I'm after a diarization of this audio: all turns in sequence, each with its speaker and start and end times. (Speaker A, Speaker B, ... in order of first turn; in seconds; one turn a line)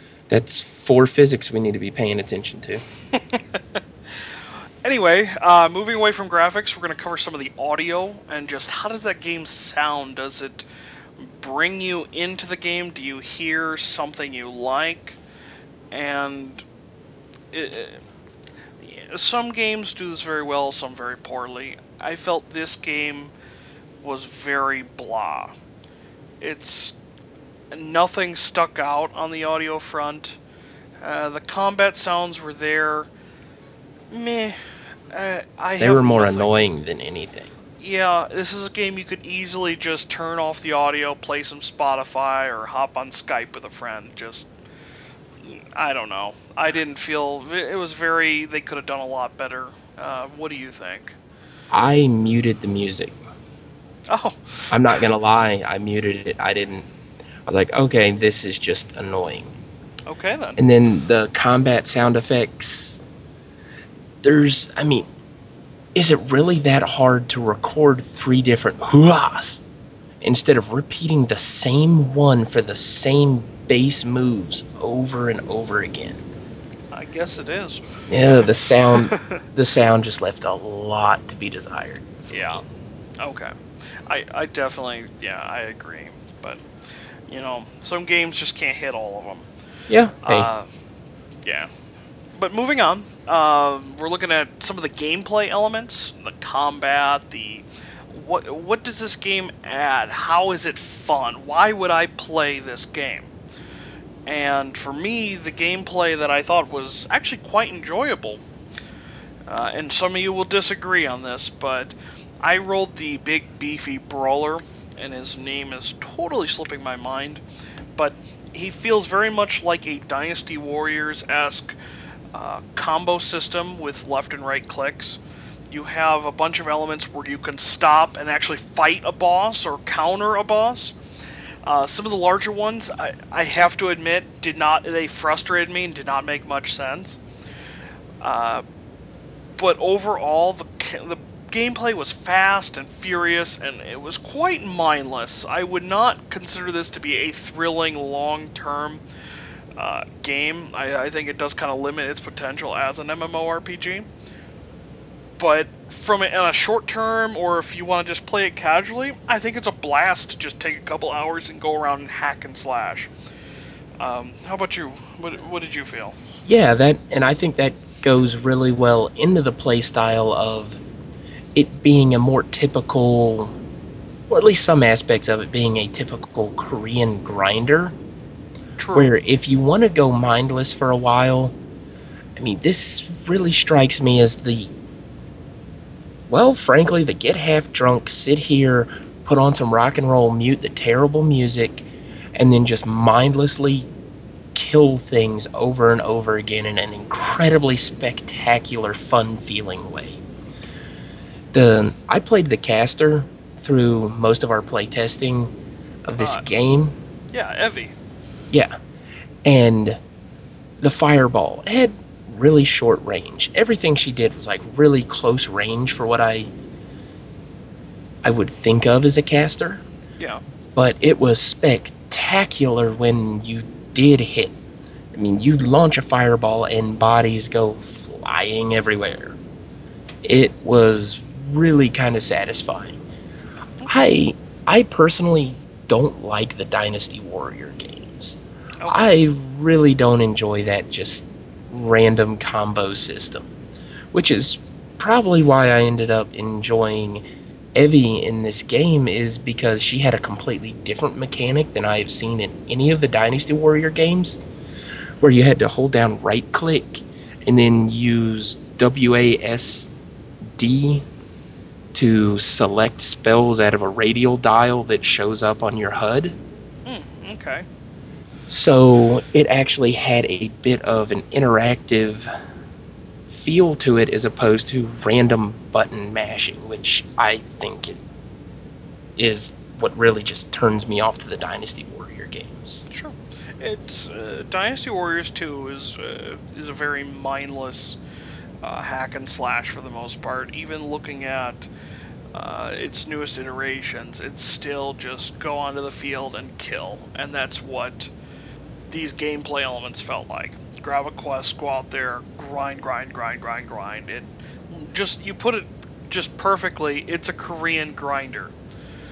Speaker A: 0.3-2.8
Speaker B: 3.1-10.7
Speaker B: 11.2-15.2
Speaker B: 15.9-16.6
Speaker B: 17.5-18.0
Speaker B: 18.8-23.3
Speaker B: 24.0-25.5
Speaker B: 26.4-26.9
Speaker B: 27.7-30.4
Speaker B: 31.0-33.1
Speaker B: 34.1-34.6
Speaker B: 35.1-36.5
Speaker A: 35.8-37.5
Speaker B: 37.8-44.5
Speaker B: 45.4-51.2
Speaker A: 51.7-53.2
Speaker B: 54.1-55.0
Speaker A: 54.7-56.9
Speaker A: 57.5-59.5
Speaker B: 60.1-60.6
Speaker A: 60.6-63.0
Speaker A: 64.2-65.1
Speaker A: 65.9-69.6
Speaker A: 70.2-76.2
Speaker B: 76.9-77.8
Speaker A: 78.1-82.6
Speaker B: 78.8-79.4
Speaker B: 82.3-82.6
Speaker B: 83.2-83.5
Speaker B: 84.1-86.6
Speaker B: 87.3-89.5
Speaker A: 89.9-90.5
Speaker B: 90.2-90.7
Speaker B: 92.3-103.3
Speaker B: 104.2-108.4
Speaker B: 109.5-117.4
Speaker B: 118.0-121.8
Speaker B: 122.3-125.2
Speaker B: 125.7-130.9
Speaker B: 131.6-137.2
Speaker B: 138.2-138.6
Speaker B: 139.6-149.0
Speaker B: 149.8-154.1
Speaker B: 155.4-163.1
Speaker B: 164.0-166.2
Speaker A: 166.4-170.8
Speaker A: 171.5-173.6
Speaker A: 174.3-177.9
Speaker B: 178.8-179.1
Speaker A: 178.9-181.6
Speaker A: 182.3-184.7
Speaker A: 186.3-193.9
Speaker A: 194.5-200.2
Speaker A: 201.5-205.5
Speaker A: 206.1-206.9
Speaker B: 206.1-206.4
Speaker B: 207.3-207.9
Speaker A: 209.4-210.0
Speaker A: 210.8-216.5
Speaker A: 218.2-219.8
Speaker B: 220.2-220.4
Speaker A: 220.7-224.5
Speaker A: 225.1-229.4
Speaker A: 230.2-233.0
Speaker A: 233.9-238.4
Speaker B: 238.8-239.1
Speaker A: 238.9-243.5
Speaker A: 244.1-247.2
Speaker A: 247.7-254.4
Speaker A: 255.2-259.9
Speaker A: 260.5-261.0
Speaker A: 261.9-266.4
Speaker B: 266.9-267.6
Speaker A: 268.5-272.3
Speaker A: 273.3-278.0
Speaker A: 279.2-282.8
Speaker B: 282.9-288.0
Speaker B: 288.6-291.7
Speaker B: 292.3-298.1
Speaker B: 298.9-308.5